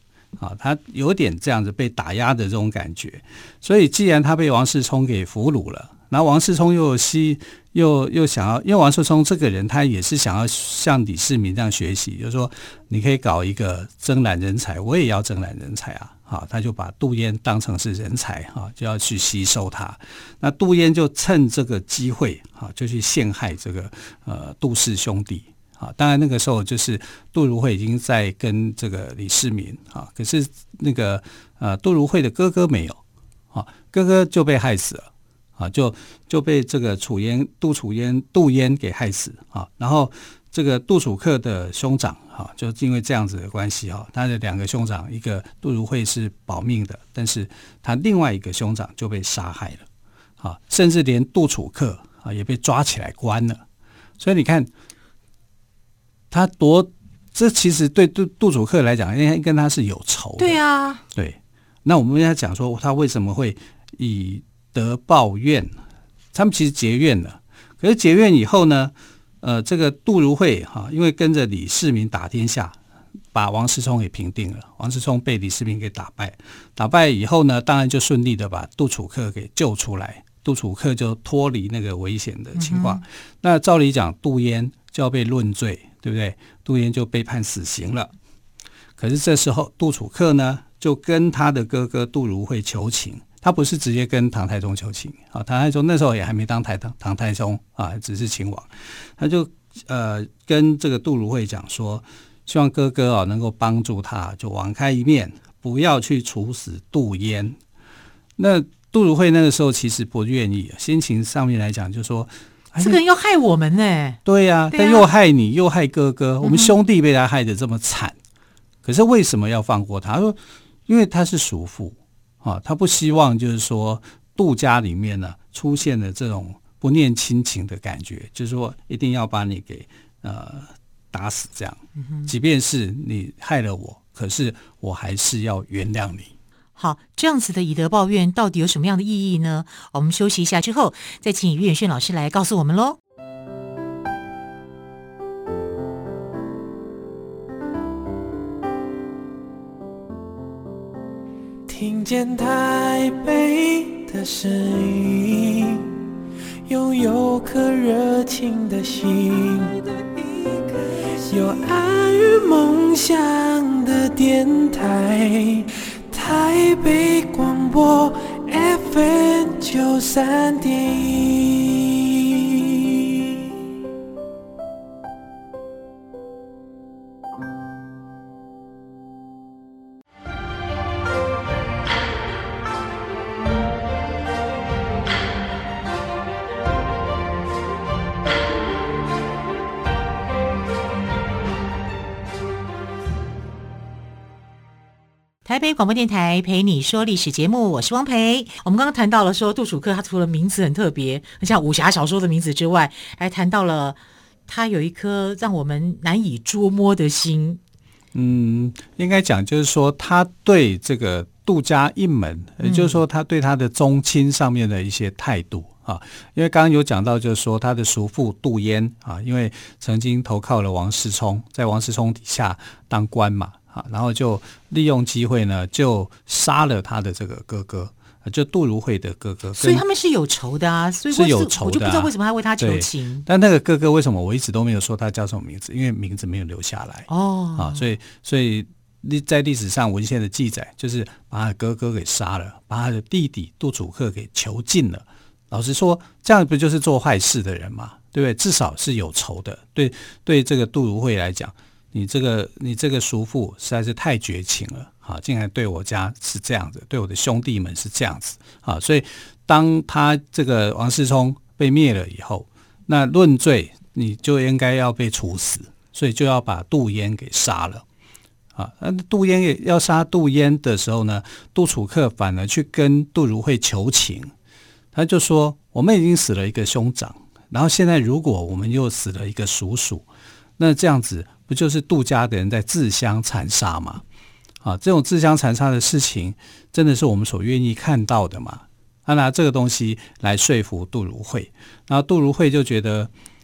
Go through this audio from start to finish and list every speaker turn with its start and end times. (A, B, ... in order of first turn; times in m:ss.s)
0:00.4-0:33.0 A
0:33.5-0:49.8 A
0:50.4-0:53.6 A
0:54.2-0:54.7 A
0:56.3-1:00.6 A
1:00.4-1:01.0 B
1:01.2-1:05.7 A
1:06.3-1:12.8 A
1:13.3-1:28.1 A
1:22.6-1:23.0 B
1:29.0-1:47.6 A
1:48.4-1:53.0 A
1:52.8-1:54.2 B
1:54.2-1:58.2 A
1:54.7-1:55.1 B
1:56.4-1:56.7 B
1:58.8-2:16.3 A
2:16.8-2:23.0 B
2:31.7-2:36.0 C
2:36.7-2:53.4 C
3:15.4-3:27.6 B
3:28.1-3:49.8 A
3:32.6-3:33.0 B
3:49.6-3:53.3 B
3:51.1-4:27.8 A
3:57.1-3:57.9 B
4:28.6-4:34.3 A
4:34.9-4:40.1 A
4:40.6-4:44.0 A
4:44.6-4:53.1 A